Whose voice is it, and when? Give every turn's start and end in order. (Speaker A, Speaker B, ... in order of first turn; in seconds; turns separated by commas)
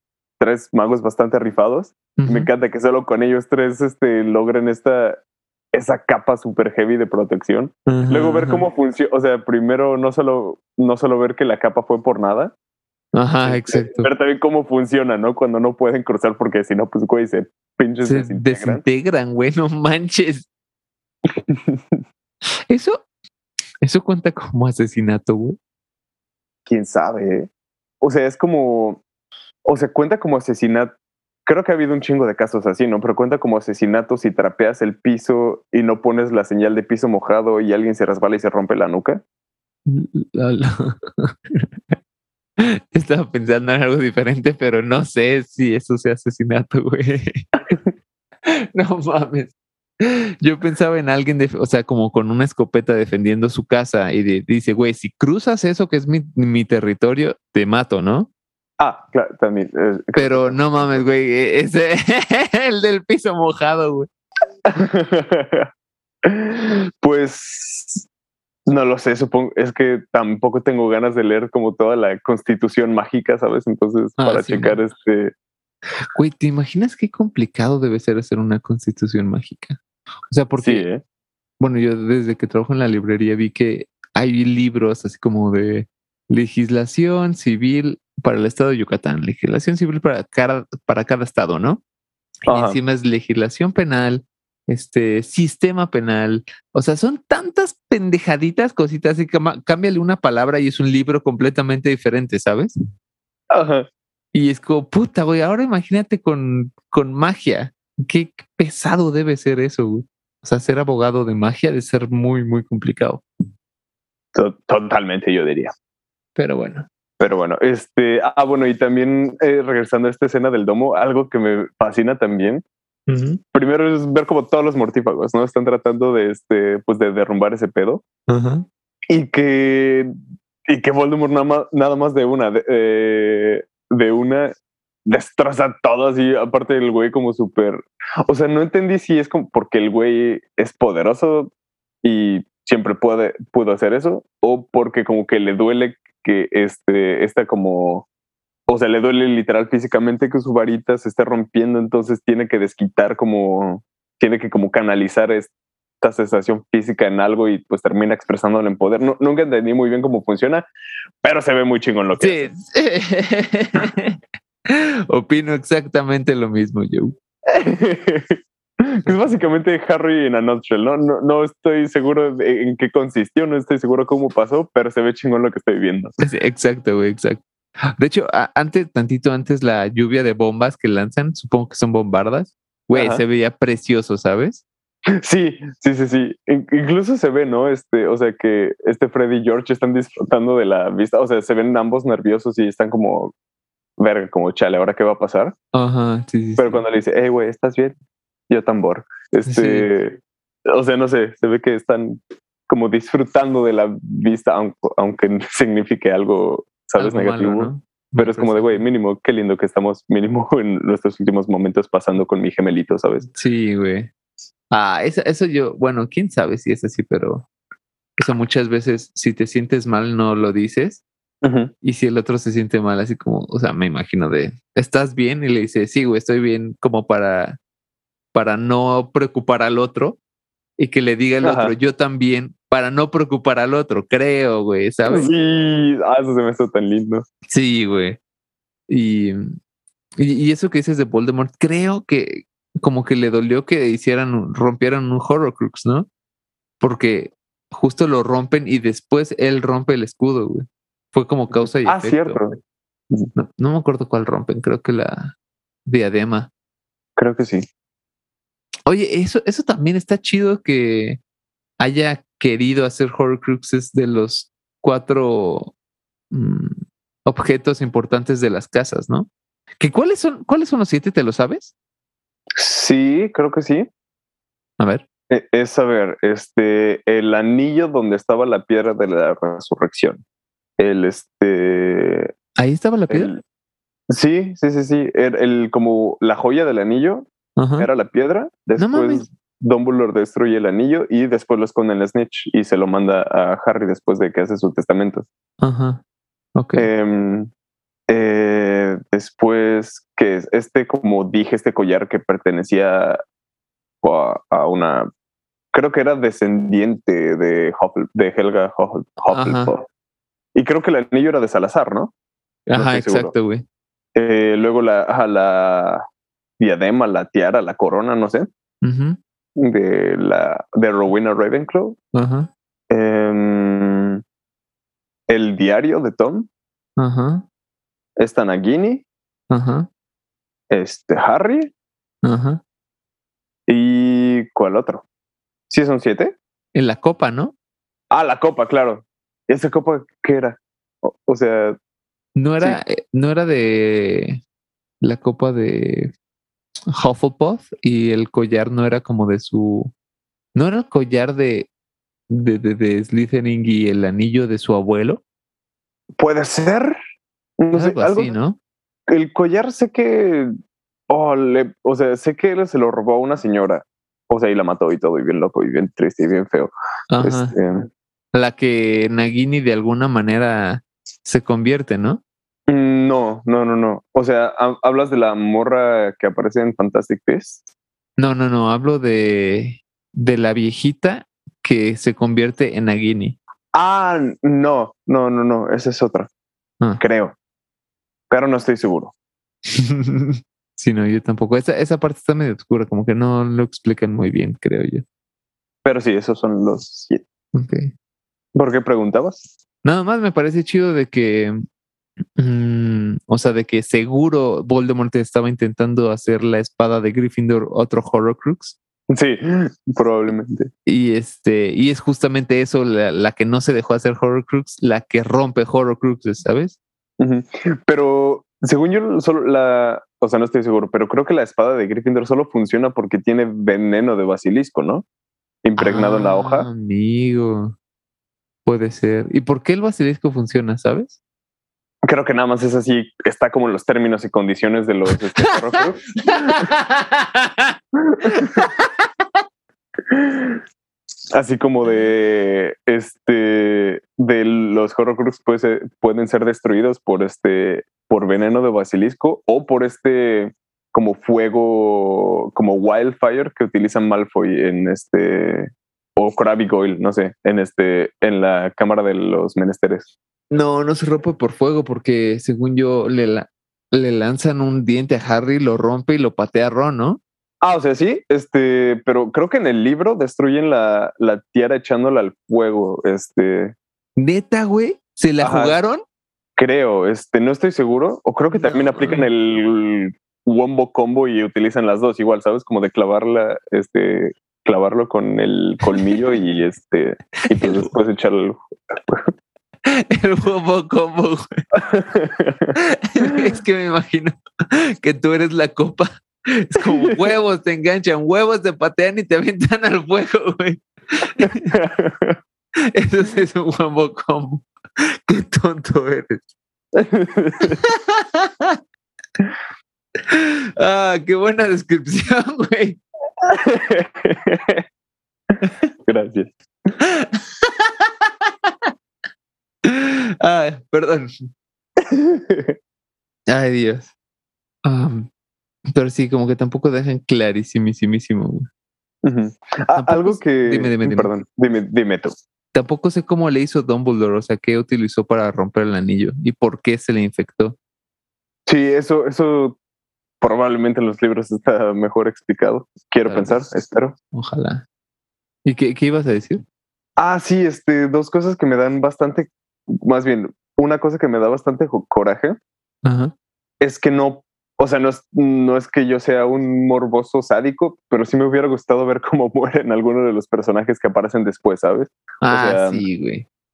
Speaker A: 0.4-5.2, Speaker B: 2.2-2.5, Speaker A: 5.7-12.5, Speaker B: 7.9-8.6, Speaker B: 13.1-14.1, Speaker A: 13.4-18.8, Speaker B: 18.0-20.5, Speaker A: 21.3-22.0, Speaker B: 22.7-23.1, Speaker B: 23.8-25.6, Speaker A: 26.7-27.5, Speaker A: 28.0-29.0, Speaker A: 29.6-30.9, Speaker A: 31.5-39.2, Speaker B: 39.9-42.0, Speaker B: 42.6-47.4, Speaker B: 48.5-58.3, Speaker A: 58.8-61.0, Speaker B: 60.1-64.1, Speaker A: 64.7-65.7, Speaker A: 66.2-68.1, Speaker A: 68.7-75.3, Speaker B: 74.2-74.8, Speaker B: 76.1-80.9, Speaker A: 80.6-81.0, Speaker B: 81.6-91.8, Speaker B: 92.5-102.8, Speaker A: 92.5-92.8, Speaker A: 103.5-103.9, Speaker B: 104.3-113.2, Speaker A: 114.3-115.7, Speaker B: 116.4-116.9, Speaker A: 117.2-122.6, Speaker B: 123.1-123.4, Speaker A: 123.5-128.0, Speaker B: 128.3-128.7, Speaker A: 129.1-130.1, Speaker A: 130.7-134.5, Speaker A: 135.1-141.5, Speaker A: 142.0-148.1, Speaker A: 148.7-160.7, Speaker A: 161.2-162.5, Speaker B: 162.2-167.2, Speaker A: 167.5-176.1, Speaker B: 176.2-184.6, Speaker A: 182.9-183.2, Speaker A: 185.2-193.3, Speaker A: 194.0-195.5, Speaker B: 195.7-196.8, Speaker A: 196.6-198.0, Speaker A: 198.5-200.2, Speaker B: 199.4-199.9, Speaker A: 200.7-213.3, Speaker B: 207.0-208.8, Speaker B: 213.3-214.1, Speaker B: 214.7-217.5, Speaker B: 218.2-221.0, Speaker A: 221.4-221.7, Speaker B: 221.8-227.6, Speaker B: 228.3-230.2, Speaker B: 230.8-235.3, Speaker A: 231.4-231.8, Speaker A: 235.1-237.2, Speaker B: 237.5-238.2, Speaker B: 238.9-239.5, Speaker B: 240.2-246.1, Speaker B: 246.8-252.4, Speaker A: 251.8-252.6, Speaker B: 253.3-256.5, Speaker A: 257.2-257.7, Speaker B: 258.9-261.2, Speaker B: 261.8-265.7, Speaker B: 266.3-271.7, Speaker A: 272.6-273.9, Speaker B: 274.8-275.1, Speaker A: 275.3-280.2, Speaker A: 280.8-282.3, Speaker B: 282.6-283.3, Speaker A: 283.1-283.4, Speaker A: 284.1-287.3, Speaker B: 287.6-287.9, Speaker A: 287.8-295.3, Speaker B: 288.8-289.3, Speaker B: 295.6-296.0, Speaker B: 296.6-296.9, Speaker A: 296.8-297.5, Speaker A: 298.1-303.2, Speaker A: 304.0-305.1, Speaker A: 305.7-309.9, Speaker B: 309.3-309.7, Speaker A: 310.6-312.1, Speaker B: 312.7-313.6, Speaker A: 312.7-313.3, Speaker A: 314.1-316.0, Speaker A: 316.6-318.5, Speaker B: 318.8-319.2, Speaker A: 319.6-322.0, Speaker B: 322.1-322.5, Speaker A: 322.9-324.2, Speaker A: 325.3-326.5, Speaker B: 327.0-327.4, Speaker A: 328.2-329.1, Speaker B: 329.5-329.9, Speaker A: 330.7-331.7, Speaker B: 332.2-332.6, Speaker A: 333.7-335.1, Speaker A: 335.7-336.4, Speaker B: 336.7-337.5, Speaker A: 338.1-341.8, Speaker B: 342.4-344.4, Speaker B: 345.0-346.1, Speaker B: 346.9-349.9, Speaker B: 350.6-351.7, Speaker B: 352.3-355.2, Speaker A: 356.2-357.0, Speaker A: 357.6-358.3, Speaker B: 357.7-358.6, Speaker A: 359.1-360.5, Speaker A: 361.1-367.9, Speaker B: 367.1-367.6, Speaker B: 368.3-372.2, Speaker A: 372.7-377.6, Speaker B: 378.2-383.4, Speaker A: 383.7-386.3, Speaker A: 387.0-387.4, Speaker A: 388.3-389.1, Speaker B: 389.8-395.0, Speaker A: 395.9-397.2, Speaker B: 397.5-397.9, Speaker A: 398.6-399.5, Speaker B: 399.8-401.6, Speaker B: 402.4-408.8, Speaker A: 409.1-410.7, Speaker B: 410.9-416.8, Speaker A: 417.2-425.1, Speaker A: 425.6-426.7, Speaker B: 425.8-427.8, Speaker B: 428.7-431.2, Speaker A: 432.0-436.7, Speaker B: 436.4-437.8, Speaker A: 438.1-438.7, Speaker B: 438.4-438.9, Speaker A: 440.1-440.6, Speaker A: 441.3-460.1, Speaker B: 460.5-467.2, Speaker A: 467.6-473.8, Speaker B: 474.2-476.0, Speaker A: 475.4-475.8, Speaker A: 476.6-489.3, Speaker B: 478.5-479.3, Speaker B: 487.4-487.9, Speaker B: 489.9-491.5, Speaker A: 491.8-493.4, Speaker B: 493.0-501.7, Speaker A: 496.8-497.2, Speaker A: 501.4-502.4, Speaker B: 502.9-506.5, Speaker A: 507.0-507.8, Speaker B: 507.8-508.8, Speaker B: 510.3-513.0, Speaker A: 513.5-514.8, Speaker A: 516.1-516.5, Speaker B: 517.0-518.9, Speaker B: 519.9-521.4, Speaker A: 522.0-522.8, Speaker B: 523.5-524.1, Speaker B: 524.8-525.3, Speaker B: 525.9-528.7, Speaker A: 529.2-532.4, Speaker B: 529.9-531.3, Speaker B: 532.7-537.8, Speaker A: 538.7-539.8, Speaker A: 540.4-544.1, Speaker B: 543.3-543.6, Speaker B: 544.3-544.9, Speaker B: 545.6-546.6, Speaker A: 547.2-552.6, Speaker B: 553.0-553.3, Speaker A: 553.8-563.0, Speaker B: 562.4-563.5